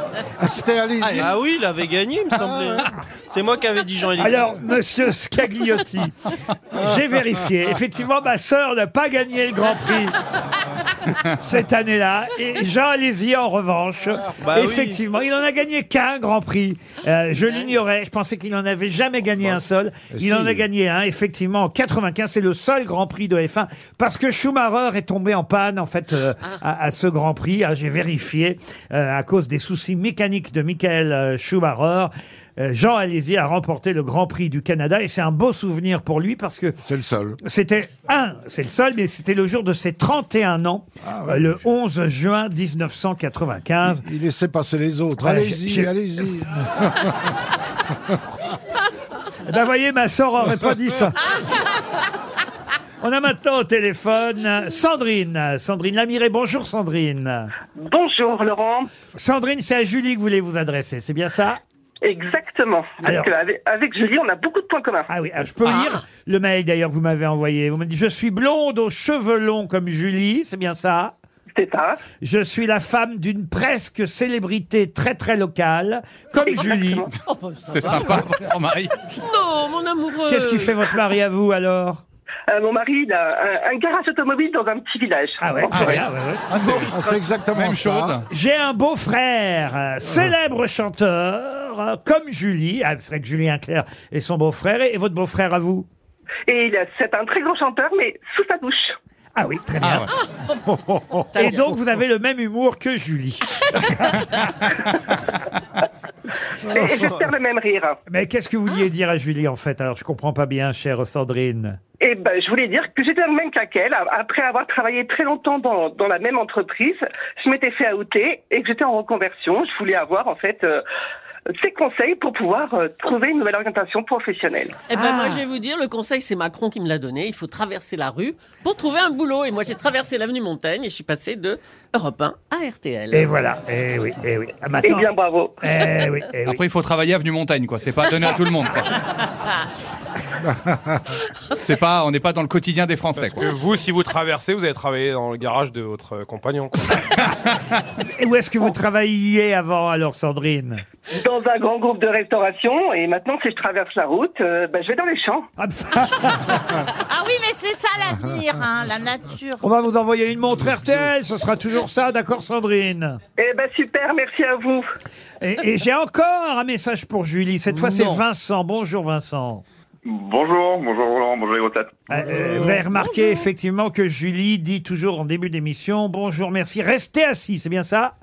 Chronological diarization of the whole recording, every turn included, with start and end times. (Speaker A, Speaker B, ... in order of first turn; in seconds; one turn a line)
Speaker A: 0.4-1.3
Speaker B: 1.1-4.6
Speaker A: 2.5-2.8
Speaker C: 4.2-10.2
Speaker C: 11.4-36.8
Speaker B: 14.3-15.0
Speaker A: 20.1-20.7
Speaker A: 36.9-37.4
Speaker C: 37.4-44.0
Speaker A: 41.0-41.5
Speaker A: 43.8-47.3
Speaker C: 45.1-45.9
Speaker C: 49.5-51.2
Speaker C: 53.0-57.5
Speaker D: 57.8-58.9
Speaker C: 59.1-61.6
Speaker D: 62.0-65.1
Speaker C: 63.0-63.3
Speaker C: 65.1-71.1
Speaker E: 65.6-66.0
Speaker D: 71.5-72.0
Speaker C: 72.2-77.1
Speaker D: 76.5-77.1
Speaker E: 77.2-78.3
Speaker F: 77.7-79.0
Speaker E: 79.2-81.0
Speaker C: 80.2-82.0
Speaker D: 82.5-85.4
Speaker C: 85.4-86.9
Speaker F: 85.7-88.3
Speaker A: 86.9-88.1
Speaker C: 88.3-95.9
Speaker D: 96.5-99.0
Speaker C: 99.3-100.1
Speaker F: 99.8-100.1
Speaker A: 100.7-101.2
Speaker E: 101.3-101.8
Speaker C: 101.3-104.3
Speaker D: 106.7-108.0
Speaker C: 108.1-111.8
Speaker D: 112.0-120.8
Speaker D: 121.6-124.8
Speaker E: 124.8-133.4
Speaker C: 124.9-125.4
Speaker C: 133.1-135.1
Speaker D: 134.8-135.6
Speaker C: 135.6-136.6
Speaker F: 136.3-138.9
Speaker F: 141.6-143.4
Speaker G: 143.3-147.1
Speaker C: 148.2-150.8
Speaker D: 151.1-155.5
Speaker C: 155.6-156.6
Speaker H: 157.1-159.6
Speaker C: 159.6-163.2
Speaker D: 163.4-164.9
Speaker C: 165.4-169.6
Speaker I: 170.0-172.0
Speaker C: 172.1-178.1
Speaker A: 172.3-172.8
Speaker E: 172.9-173.5